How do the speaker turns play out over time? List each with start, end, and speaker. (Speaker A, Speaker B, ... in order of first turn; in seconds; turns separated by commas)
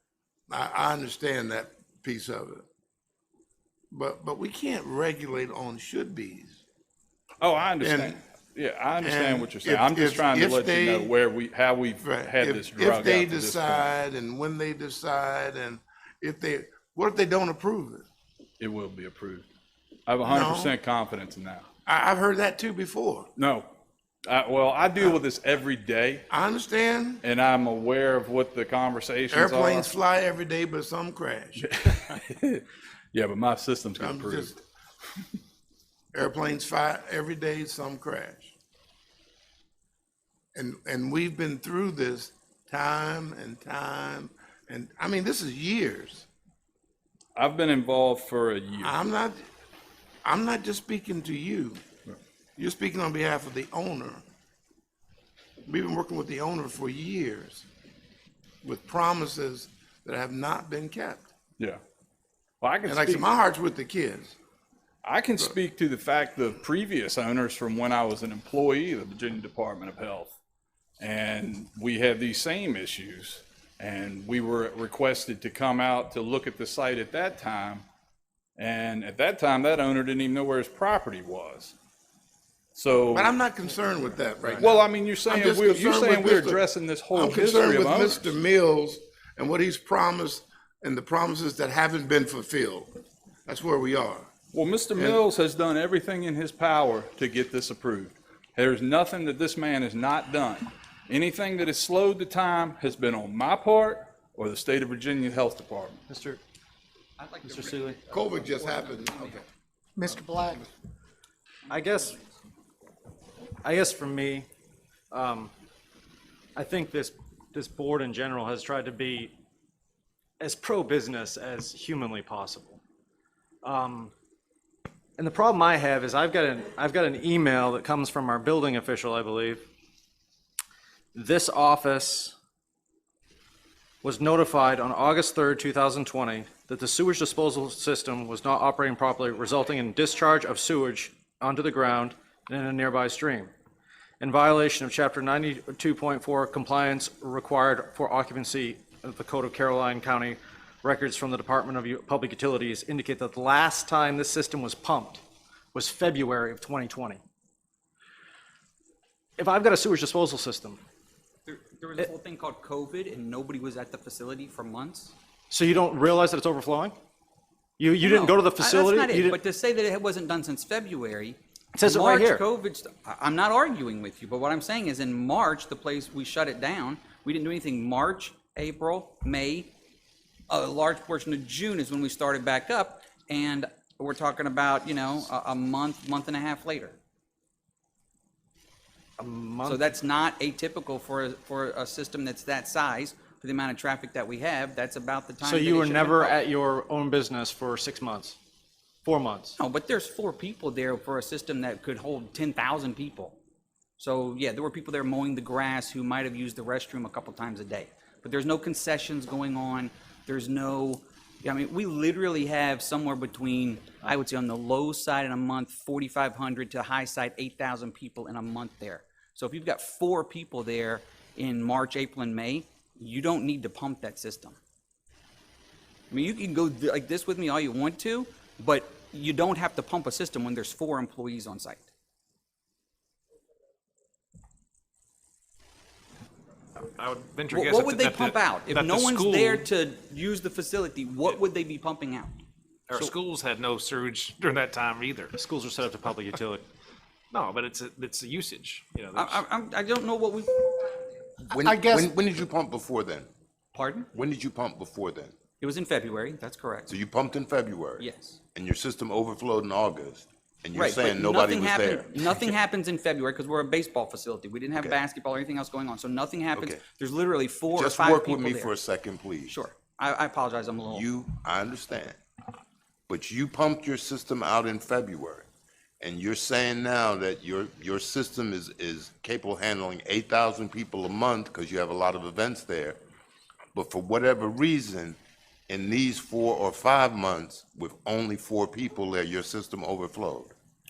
Speaker A: 0.5-2.6, Speaker A: 3.9-6.6, Speaker B: 7.4-13.9, Speaker A: 7.8-8.2, Speaker A: 9.0-11.1, Speaker A: 12.0-18.1, Speaker B: 18.6-19.4, Speaker B: 20.1-21.6, Speaker A: 20.2-20.7, Speaker A: 21.9-23.3, Speaker B: 23.4-23.7, Speaker B: 24.2-26.3, Speaker A: 26.3-27.2, Speaker B: 27.2-29.9, Speaker A: 29.3-32.0, Speaker B: 31.6-34.6, Speaker A: 34.0-34.5, Speaker A: 36.1-38.5, Speaker A: 40.5-46.3, Speaker B: 47.4-49.0, Speaker A: 48.8-49.4, Speaker A: 50.2-51.8, Speaker A: 52.6-54.2, Speaker A: 55.6-57.6, Speaker A: 58.6-61.3, Speaker B: 62.6-63.3, Speaker A: 62.9-64.3, Speaker B: 65.0-70.3, Speaker B: 71.0-77.8, Speaker B: 78.6-81.7, Speaker B: 82.7-83.3, Speaker A: 83.1-86.6, Speaker B: 84.6-88.3, Speaker A: 87.1-92.9, Speaker A: 93.5-94.3, Speaker B: 94.5-106.0, Speaker A: 95.0-95.2, Speaker C: 106.1-106.4, Speaker D: 107.2-109.4, Speaker C: 107.4-108.0, Speaker A: 108.1-109.4, Speaker C: 111.7-112.2, Speaker C: 113.6-114.5, Speaker C: 115.1-115.5, Speaker C: 116.5-119.3, Speaker C: 120.4-122.8, Speaker C: 123.6-124.1, Speaker C: 125.2-129.7, Speaker C: 131.1-132.3, Speaker C: 134.0-143.5, Speaker C: 144.2-155.2, Speaker C: 155.7-157.2, Speaker C: 159.4-160.8, Speaker D: 161.4-165.1, Speaker C: 165.5-167.0, Speaker C: 167.8-169.4, Speaker D: 168.0-179.7, Speaker C: 171.7-172.4, Speaker D: 180.5-186.9, Speaker C: 189.2-189.8, Speaker D: 189.6-196.4, Speaker C: 195.4-198.4, Speaker C: 199.0-199.6, Speaker D: 199.6-203.4, Speaker D: 204.0-224.6, Speaker D: 226.1-231.9, Speaker E: 236.8-239.6, Speaker D: 237.5-242.4, Speaker E: 242.9-245.3, Speaker C: 245.3-246.6, Speaker E: 247.3-249.4, Speaker D: 249.1-251.5, Speaker F: 251.4-253.3, Speaker C: 251.7-252.1, Speaker D: 253.7-254.1, Speaker F: 254.1-255.3, Speaker D: 255.6-256.9, Speaker F: 256.9-262.5, Speaker D: 258.0-258.4, Speaker D: 260.7-268.7, Speaker F: 266.5-266.8, Speaker F: 267.7-269.6, Speaker D: 269.5-271.1, Speaker F: 270.9-272.2, Speaker F: 273.1-275.4, Speaker F: 276.0-283.0, Speaker F: 283.7-285.2, Speaker F: 285.7-290.5